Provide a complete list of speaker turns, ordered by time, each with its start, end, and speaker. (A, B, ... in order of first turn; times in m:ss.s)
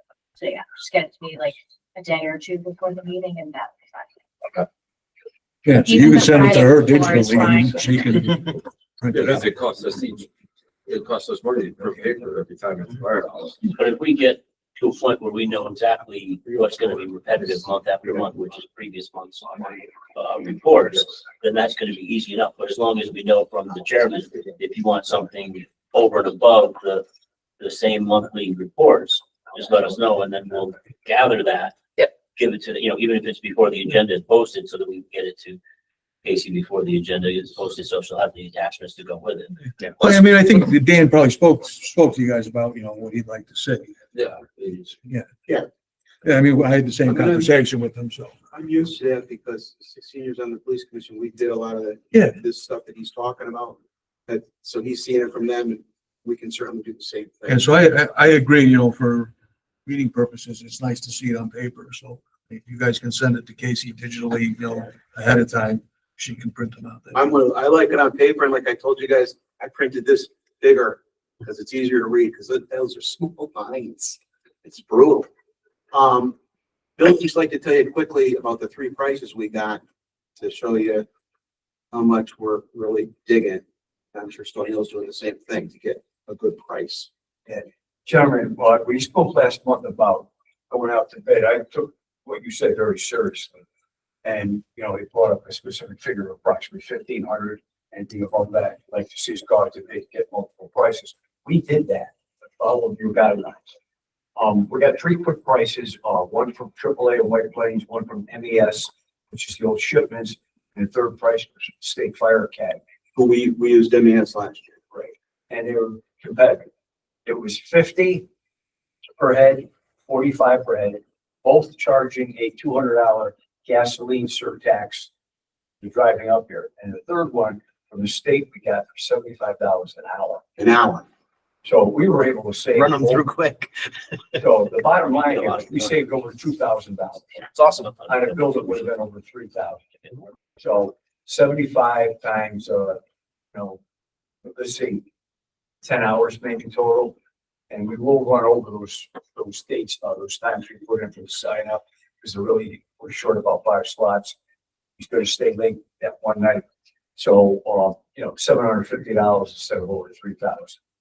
0:00.3-0:04.6 A
0:05.6-0:09.4 B
0:05.8-0:08.2 A
0:09.1-0:10.3 C
0:10.8-0:13.6 C
0:13.7-0:27.0 D
0:27.6-0:35.6 D
0:36.2-0:40.1 D
0:40.0-0:44.0 B
0:44.1-0:44.9 C
0:46.2-0:48.4 B
0:47.1-0:47.5 E
0:48.5-0:57.7 E
0:52.1-0:52.4 B
0:57.5-0:59.3 B
0:59.8-1:07.2 B
1:07.1-1:15.3 E
1:15.9-1:16.4 E
1:17.0-1:19.8 E
1:20.4-1:21.0 E
1:21.9-1:27.1 E
1:27.5-1:33.6 F
1:34.2-1:43.7 F
1:44.4-1:52.8 F
1:53.1-1:54.9 E
1:54.9-1:56.7 F
1:57.2-1:58.2 F
1:59.2-2:05.1 F
2:05.8-2:10.4 F
2:10.6-2:11.0 E
2:11.6-2:13.2 F
2:12.7-2:13.9 E
2:14.4-2:17.4 F
2:15.2-2:15.6 D
2:17.6-2:17.9 C
2:18.1-2:19.8 F
2:20.6-2:23.0 F
2:23.5-2:23.8 F
2:24.4-2:25.0 F
2:25.8-2:27.2 F
2:27.7-2:34.3 F
2:35.0-2:36.6 F
2:37.2-2:40.8 F